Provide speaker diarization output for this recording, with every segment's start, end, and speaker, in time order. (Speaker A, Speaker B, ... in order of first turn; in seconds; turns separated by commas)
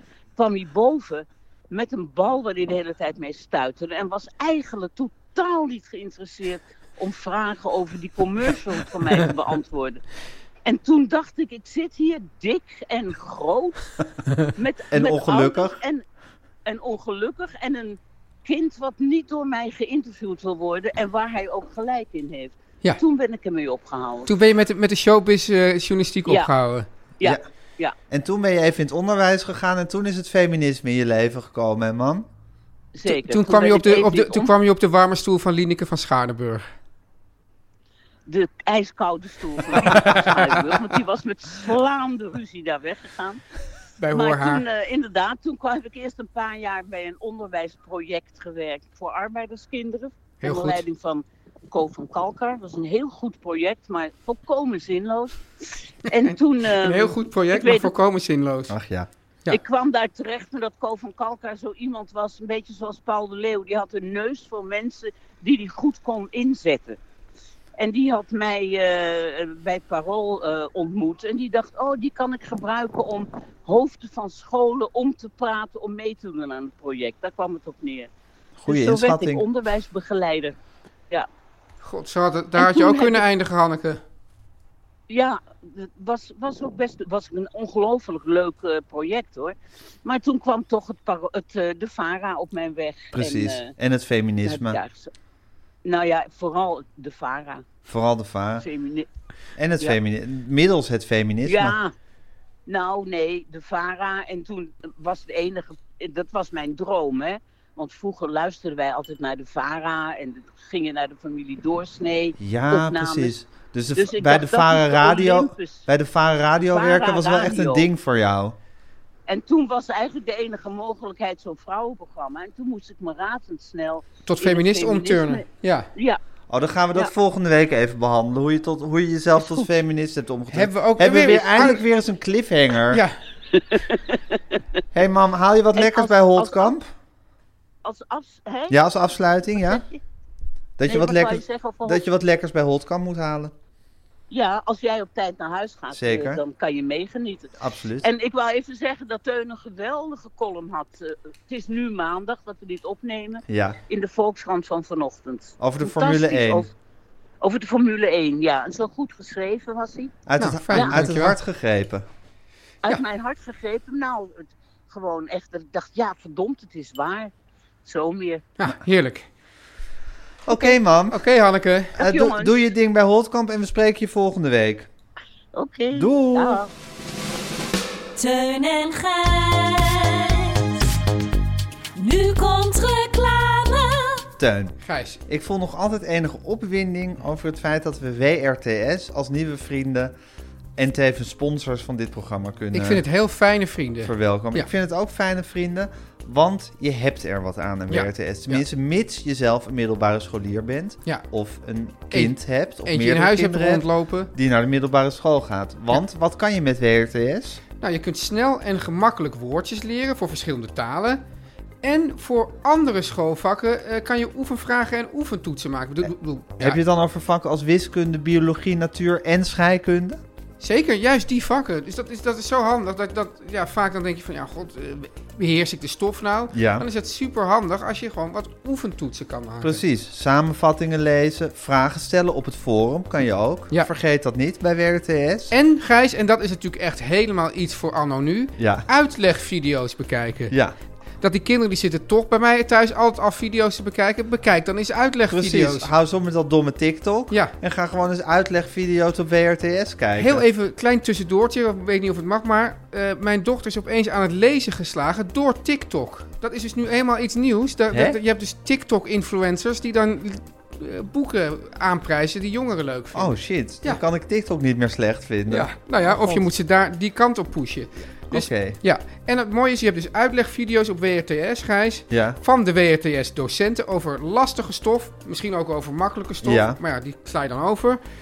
Speaker A: 0.3-10.0, Speaker A: 10.6-13.9, Speaker A: 14.5-16.0, Speaker B: 14.9-15.8, Speaker A: 16.6-24.3, Speaker C: 24.3-26.9, Speaker A: 27.2-27.9, Speaker B: 28.1-32.2, Speaker A: 32.9-34.5, Speaker C: 33.0-36.7, Speaker A: 38.2-43.4, Speaker C: 40.0-40.2, Speaker C: 44.0-44.6, Speaker A: 44.1-57.9, Speaker C: 50.4-50.8, Speaker C: 56.2-58.7, Speaker B: 58.7-59.1, Speaker A: 59.5-67.0, Speaker A: 67.8-78.1, Speaker B: 78.6-79.4, Speaker A: 78.7-80.5, Speaker C: 81.8-84.0, Speaker A: 82.6-83.2, Speaker A: 85.1-93.7, Speaker B: 93.1-94.8, Speaker A: 94.4-95.1, Speaker A: 95.8-97.7, Speaker B: 97.9-98.6, Speaker A: 98.6-99.1, Speaker B: 99.6-101.8, Speaker A: 101.4-101.9, Speaker A: 102.7-113.3, Speaker B: 112.4-118.6, Speaker A: 113.9-115.8, Speaker A: 116.6-117.9, Speaker A: 119.3-126.2, Speaker C: 124.2-125.9, Speaker B: 126.5-133.0, Speaker C: 130.5-131.8, Speaker C: 132.9-133.2, Speaker A: 133.7-134.2, Speaker B: 134.9-136.9, Speaker A: 135.7-136.8, Speaker A: 137.8-138.8, Speaker B: 138.7-139.8, Speaker A: 139.6-139.9, Speaker B: 140.8-143.5, Speaker A: 140.8-142.0, Speaker A: 144.3-147.5, Speaker B: 145.9-146.4, Speaker B: 147.6-148.1, Speaker A: 148.0-156.7, Speaker B: 153.5-153.8, Speaker B: 155.6-156.7, Speaker A: 157.4-160.9, Speaker B: 160.2-162.1, Speaker C: 160.4-161.4, Speaker A: 162.8-167.3, Speaker A: 167.8-168.4, Speaker C: 168.6-169.3, Speaker B: 170.4-171.2, Speaker C: 171.1-172.0, Speaker B: 171.9-174.9, Speaker A: 172.0-172.6, Speaker A: 175.5-176.7, Speaker B: 175.9-176.6, Speaker D: 178.2-180.9, Speaker D: 181.9-184.2, Speaker B: 184.4-190.1, Speaker C: 184.8-185.2, Speaker B: 190.8-193.0, Speaker C: 192.7-194.7, Speaker B: 194.0-207.6, Speaker C: 197.9-198.6, Speaker C: 202.1-204.3, Speaker C: 207.8-211.2, Speaker C: 211.8-216.8, Speaker B: 216.6-220.2, Speaker C: 220.6-229.8, Speaker B: 226.5-226.8, Speaker B: 229.6-235.5, Speaker C: 235.5-240.5, Speaker B: 238.6-238.9, Speaker B: 240.5-240.8, Speaker C: 241.2-245.9, Speaker B: 245.3-250.4, Speaker C: 250.2-264.0, Speaker B: 257.9-258.2, Speaker B: 263.1-266.5, Speaker C: 265.5-278.0, Speaker B: 268.3-268.8, Speaker B: 272.1-272.4, Speaker B: 276.4-276.8